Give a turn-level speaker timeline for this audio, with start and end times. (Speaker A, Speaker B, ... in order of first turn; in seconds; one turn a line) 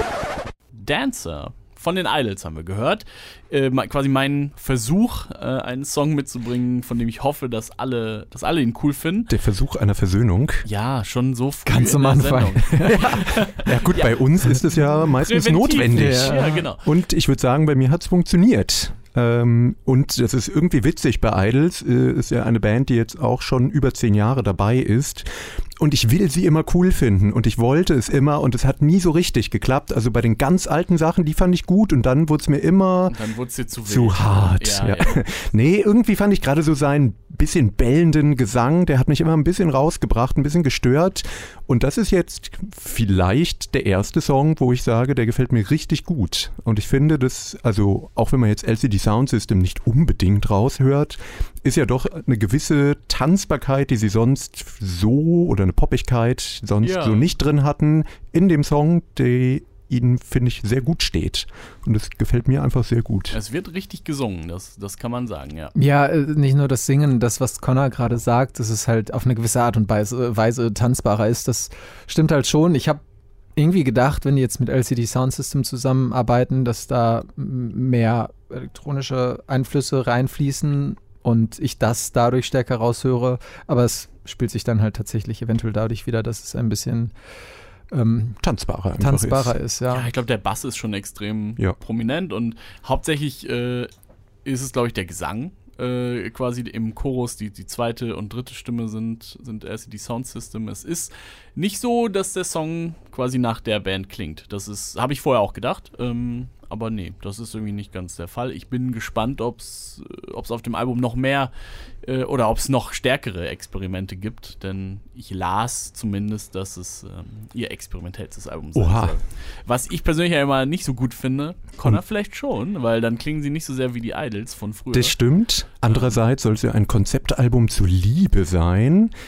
Speaker A: 0.7-9.3
Speaker B: 9.3-10.7
Speaker A: 10.6-14.3
Speaker C: 11.7-13.5
Speaker B: 12.9-33.2
Speaker A: 15.1-16.8
Speaker C: 15.9-16.7
Speaker A: 33.1-35.2
Speaker B: 33.9-63.4
Speaker A: 56.8-57.3
Speaker A: 63.3-65.7
Speaker C: 65.7-73.0
Speaker C: 73.5-87.1
Speaker C: 87.9-88.4
Speaker B: 88.4-89.5
Speaker C: 89.0-90.1
Speaker A: 89.9-93.9
Speaker A: 94.4-111.5
Speaker A: 112.0-125.2
Speaker B: 118.7-119.2
Speaker B: 124.9-129.1
Speaker A: 125.9-126.2